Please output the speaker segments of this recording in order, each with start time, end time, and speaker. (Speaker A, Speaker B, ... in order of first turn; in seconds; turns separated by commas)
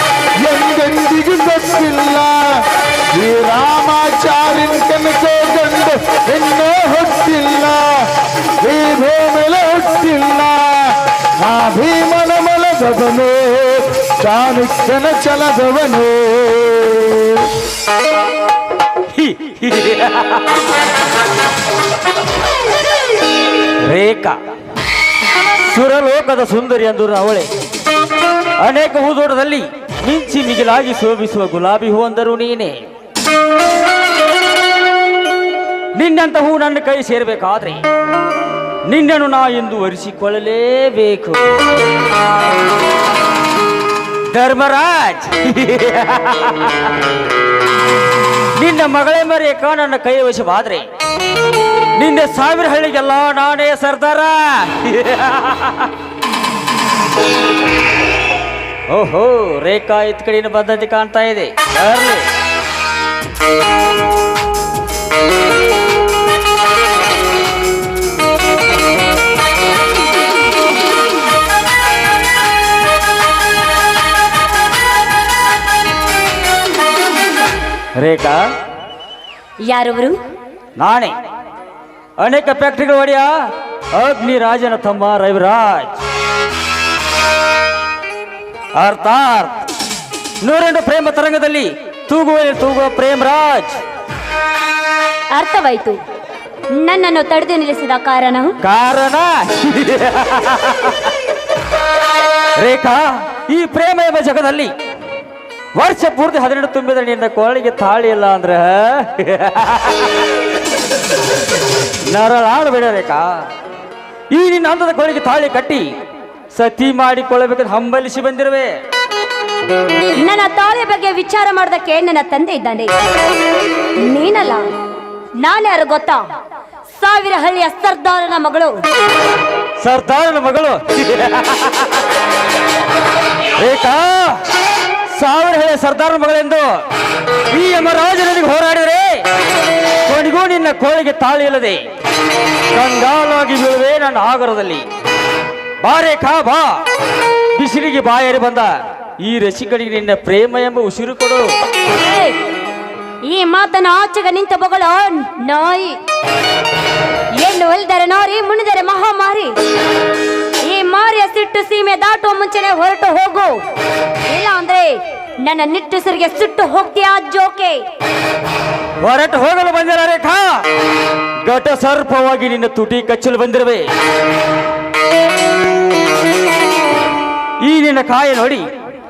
Speaker A: 0.4-8.1, Speaker A: 8.6-17.5, Speaker B: 19.1-20.6, Speaker B: 23.9-24.4, Speaker B: 25.6-27.5, Speaker B: 28.6-32.8, Speaker B: 35.9-37.8, Speaker B: 38.9-41.5, Speaker B: 44.3-46.9, Speaker B: 48.6-50.9, Speaker B: 52.0-55.9, Speaker B: 58.9-62.3, Speaker B: 78.0-78.4, Speaker C: 79.7-80.2, Speaker B: 80.8-81.2, Speaker B: 82.2-83.3, Speaker B: 83.9-86.0, Speaker B: 88.8-89.6, Speaker B: 90.4-93.8, Speaker C: 95.3-96.0, Speaker C: 96.7-98.6, Speaker B: 98.6-101.1, Speaker B: 102.6-104.7, Speaker B: 105.8-110.3, Speaker B: 112.1-113.3, Speaker B: 114.3-115.9, Speaker B: 116.5-118.8, Speaker C: 120.2-122.9, Speaker C: 124.0-124.7, Speaker C: 125.4-126.2, Speaker C: 127.0-128.8, Speaker B: 129.8-132.0, Speaker B: 133.6-134.4, Speaker B: 135.1-136.8, Speaker B: 137.5-139.3, Speaker B: 140.1-141.8, Speaker B: 142.7-144.9, Speaker B: 145.8-146.8, Speaker B: 147.6-151.4, Speaker C: 151.9-152.4, Speaker C: 153.3-156.0, Speaker C: 157.4-159.5, Speaker C: 160.6-163.6, Speaker C: 164.3-167.8, Speaker B: 169.0-170.7, Speaker B: 171.4-173.9, Speaker B: 177.6-178.7